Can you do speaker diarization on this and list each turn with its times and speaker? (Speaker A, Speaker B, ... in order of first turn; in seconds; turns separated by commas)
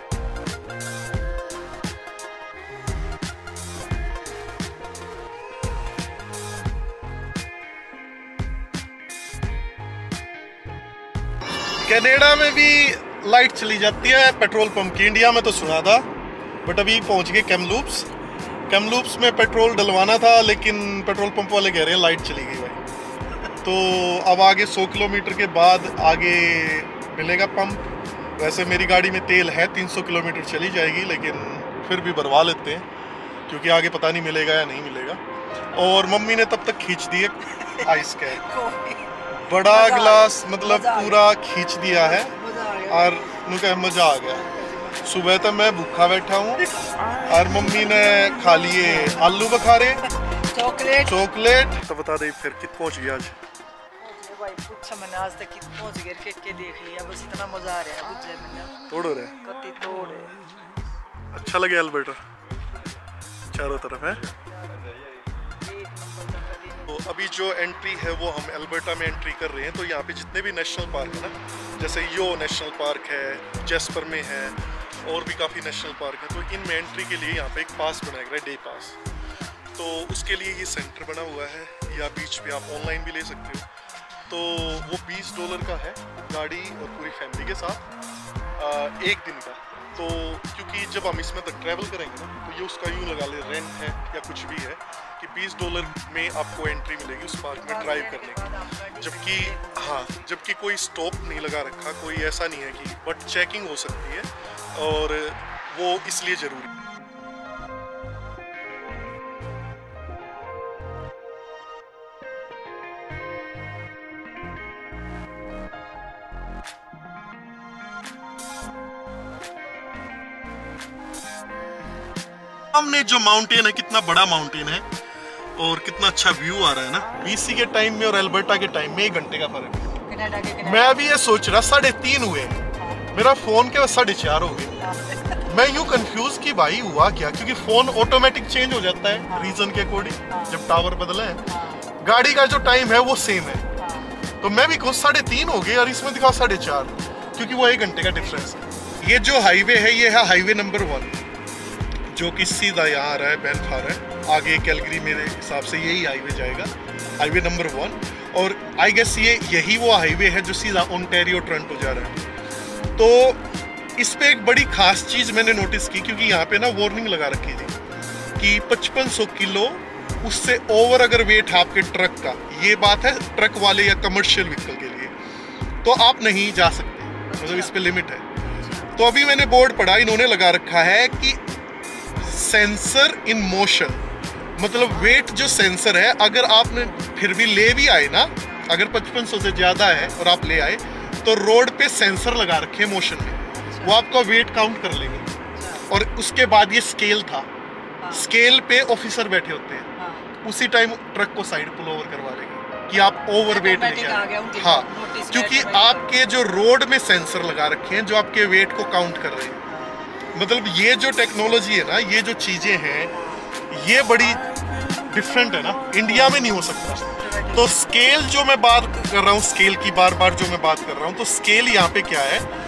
Speaker A: 11.8-16.1, Speaker A: 16.6-18.1, Speaker A: 18.7-22.8, Speaker A: 23.6-27.8, Speaker A: 28.4-32.9, Speaker A: 33.5-35.2, Speaker A: 35.7-38.4, Speaker B: 37.6-41.2, Speaker A: 39.4-42.3, Speaker B: 41.9-43.3, Speaker A: 42.9-44.4, Speaker B: 44.1-45.2, Speaker A: 45.0-46.6, Speaker B: 46.6-46.9, Speaker A: 47.2-50.0, Speaker B: 50.0-51.2, Speaker A: 51.0-53.3, Speaker B: 54.0-58.7, Speaker A: 58.9-59.4, Speaker B: 59.4-60.4, Speaker A: 61.3-62.2, Speaker A: 63.5-64.2, Speaker B: 65.6-67.0, Speaker A: 66.9-79.0, Speaker A: 79.8-83.7, Speaker B: 84.0-84.3, Speaker A: 84.3-87.8, Speaker A: 88.5-98.5, Speaker B: 97.5-100.3, Speaker A: 99.0-106.7, Speaker A: 122.7-124.8, Speaker A: 125.6-129.9, Speaker B: 130.1-131.0, Speaker A: 130.6-132.6, Speaker B: 132.8-133.1, Speaker A: 133.1-134.7, Speaker B: 134.8-135.4, Speaker A: 135.5-141.4, Speaker B: 139.3-139.6, Speaker B: 140.3-140.6, Speaker B: 141.5-141.8, Speaker A: 142.0-143.6, Speaker B: 143.8-144.2, Speaker A: 144.4-151.2, Speaker B: 148.2-148.7, Speaker A: 152.1-162.2, Speaker A: 163.0-163.4, Speaker A: 164.0-167.7, Speaker A: 168.4-175.1, Speaker A: 175.8-178.2, Speaker B: 177.3-177.7, Speaker B: 178.4-178.9, Speaker A: 178.9-181.4, Speaker A: 182.2-184.0, Speaker A: 184.6-195.2, Speaker B: 184.8-185.2, Speaker B: 188.4-188.7, Speaker B: 193.5-194.0, Speaker B: 195.4-195.8, Speaker A: 195.9-197.5, Speaker B: 198.0-198.3, Speaker A: 198.1-199.9, Speaker B: 200.0-200.3, Speaker A: 200.4-209.6, Speaker B: 203.5-206.2, Speaker B: 209.7-210.0, Speaker A: 210.3-213.1, Speaker B: 213.1-213.5, Speaker A: 213.7-214.5, Speaker A: 215.1-222.5, Speaker B: 217.2-218.0